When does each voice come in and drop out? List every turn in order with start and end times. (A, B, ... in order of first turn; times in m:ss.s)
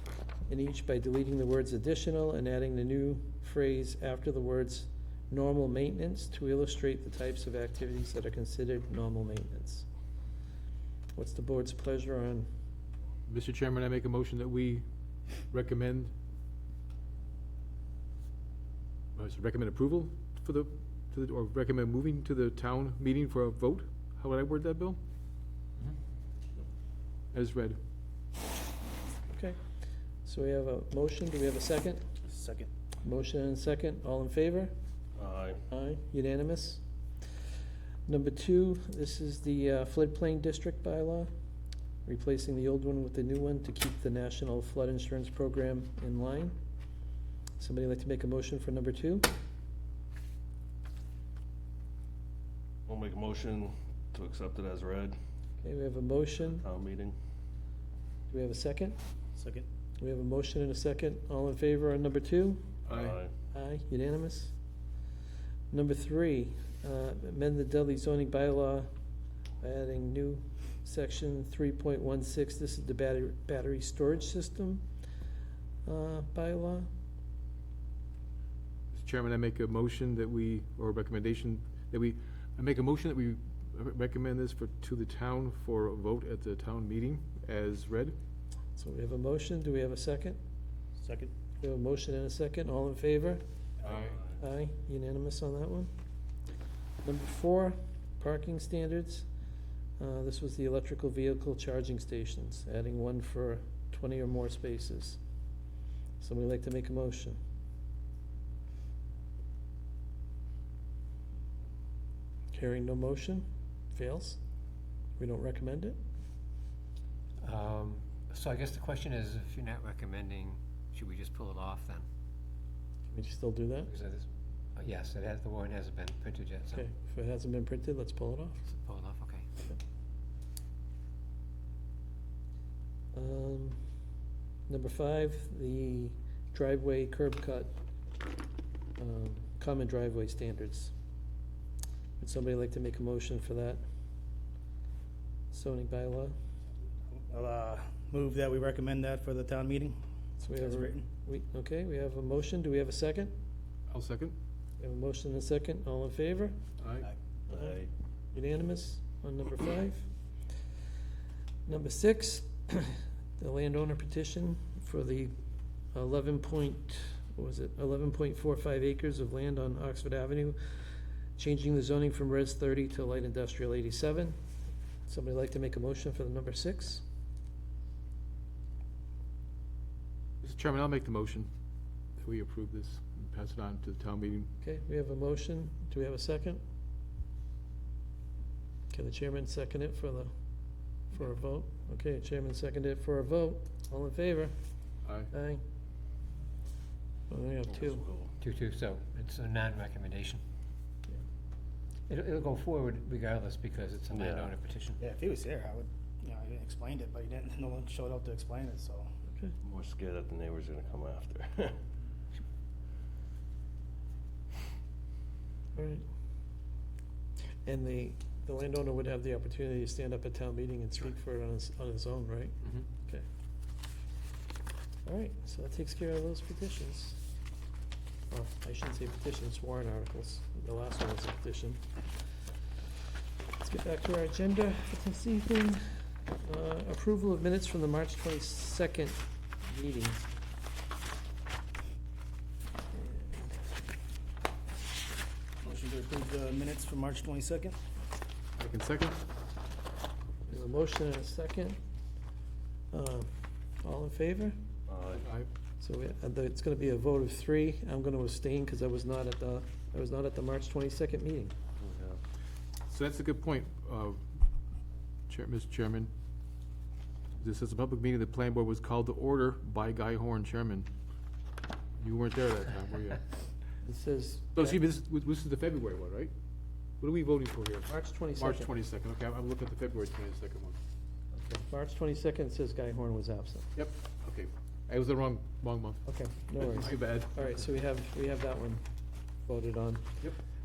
0:00.5-0:09.8 A
0:11.2-0:12.5 A
0:13.3-0:14.8 B
0:15.5-0:16.1 B
0:19.2-0:25.0 B
0:27.3-0:27.8 B
0:29.3-0:29.6 A
0:30.2-0:32.0 A
0:32.2-0:32.7 C
0:33.0-0:34.7 A
0:35.2-0:35.6 D
0:35.7-0:36.8 A
0:38.1-0:41.3 A
0:42.0-0:46.5 A
0:47.6-0:49.3 A
0:52.9-0:55.2 D
0:55.6-0:56.6 A
0:56.6-0:57.2 D
0:58.3-0:59.0 A
0:59.4-0:59.6 C
1:00.0-1:02.6 A
1:02.9-1:03.2 B
1:02.9-1:03.3 D
1:03.5-1:04.5 A
1:05.7-1:08.9 A
1:09.6-1:14.8 A
1:15.8-1:16.9 A
1:18.9-1:28.2 B
1:28.8-1:30.4 A
1:31.0-1:31.3 C
1:31.6-1:33.4 A
1:33.8-1:34.2 B
1:34.3-1:35.9 A
1:37.0-1:39.3 A
1:40.0-1:45.2 A
1:46.2-1:47.4 A
1:52.5-1:54.4 A
1:55.2-1:56.0 A
1:57.4-2:02.0 E
2:03.1-2:03.9 A
2:03.9-2:06.8 E
2:06.7-2:08.6 A
2:08.7-2:09.5 E
2:13.1-2:13.8 A
2:14.7-2:17.7 A
2:19.0-2:20.9 A
2:22.2-2:23.8 A
2:25.5-2:26.3 A
2:27.1-2:30.0 C
2:30.4-2:33.3 A
2:30.5-2:31.0 C
2:33.9-2:34.3 B
2:34.8-2:36.5 A
2:36.8-2:37.1 B
2:37.5-2:37.9 D
2:38.3-2:40.1 A
2:41.7-2:45.3 A
2:45.9-2:50.6 A
2:51.4-2:54.4 A
2:55.1-2:57.0 A
3:00.4-3:01.5 B
3:02.2-3:04.5 B
3:04.6-3:06.6 A
3:08.9-3:10.3 A
3:11.1-3:14.5 A
3:15.3-3:15.6 A
3:17.3-3:18.0 A
3:17.8-3:18.3 D
3:18.4-3:20.4 E
3:22.1-3:25.0 E
3:24.1-3:24.5 D
3:25.0-3:29.1 C
3:29.3-3:29.5 A
3:29.6-3:31.8 D
3:35.8-3:36.0 A
3:37.6-3:43.2 A
3:45.0-3:47.2 A
3:48.3-3:51.8 A
3:53.6-3:55.8 A
3:56.4-4:00.3 A
4:02.9-4:03.4 A
4:05.6-4:07.8 C
4:08.6-4:09.2 B
4:10.5-4:11.8 A
4:12.9-4:13.3 A
4:13.8-4:14.6 A
4:14.9-4:15.2 D
4:15.2-4:15.5 B
4:15.8-4:21.5 A
4:21.8-4:22.2 D
4:22.9-4:24.2 B
4:25.3-4:26.1 B
4:27.4-4:30.9 B
4:32.0-4:33.2 B
4:33.8-4:34.8 A
4:34.5-4:36.3 B
4:37.0-4:40.8 B
4:37.9-4:38.7 A
4:41.4-4:43.7 A
4:43.7-4:46.0 B
4:46.0-4:48.8 A
4:46.6-4:47.6 B
4:49.5-4:50.2 A